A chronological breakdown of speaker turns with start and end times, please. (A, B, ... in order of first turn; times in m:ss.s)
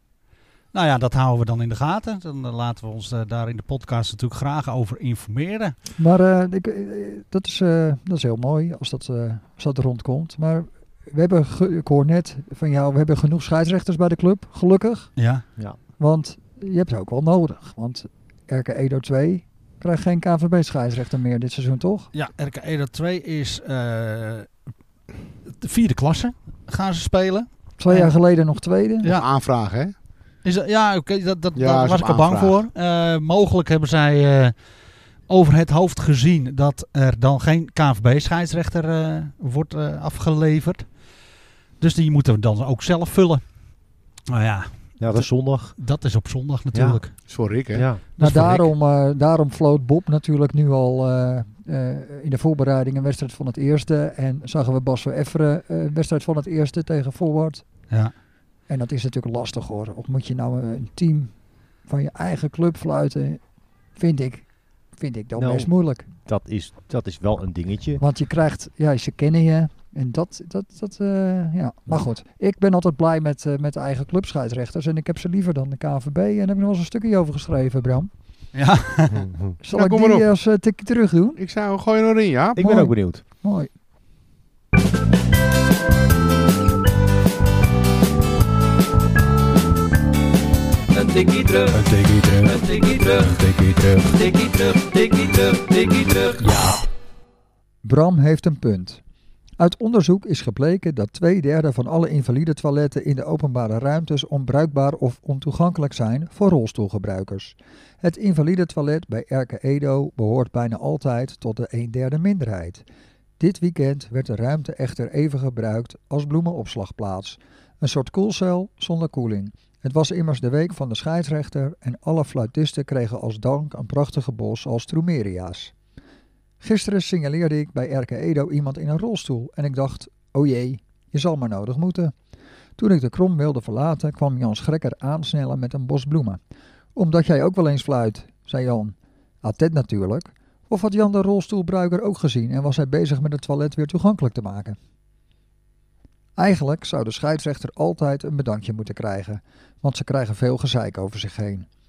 0:00.7-0:05.8 A
0:06.0-0:15.1 B
0:15.2-0:15.4 A
0:16.0-0:22.1 B
0:22.1-0:24.5 A
0:25.5-0:28.1 A
0:27.8-0:29.1 B
0:29.1-0:29.9 C
0:30.4-0:34.5 A
0:31.6-0:32.6 C
0:35.3-0:40.9 A
0:41.8-0:43.4 A
0:44.3-0:47.1 A
0:45.0-0:45.8 D
0:46.7-0:47.0 D
0:47.3-0:47.9 C
0:47.7-0:48.0 D
0:48.2-0:48.7 A
0:48.2-0:57.6 B
0:58.7-1:01.3 B
1:01.9-1:03.4 B
1:04.0-1:04.5 B
1:05.0-1:06.1 B
1:05.4-1:08.0 D
1:08.0-1:18.1 B
1:18.5-1:19.2 A
1:19.1-1:19.6 D
1:19.6-1:21.4 B
1:19.7-1:20.3 C
1:21.4-1:22.6 C
1:22.6-1:23.2 D
1:22.6-1:23.7 B
1:30.9-1:31.8 E
1:31.7-1:32.6 A
1:32.4-1:33.4 E
1:33.3-1:34.0 A
1:34.1-1:36.4 E
1:36.4-1:36.8 A
1:37.8-1:39.0 B
1:39.6-1:52.8 B
1:53.4-2:05.7 B
2:06.6-2:12.1 B
2:12.8-2:16.4 B
2:17.0-2:24.8 B
2:26.4-2:31.7 B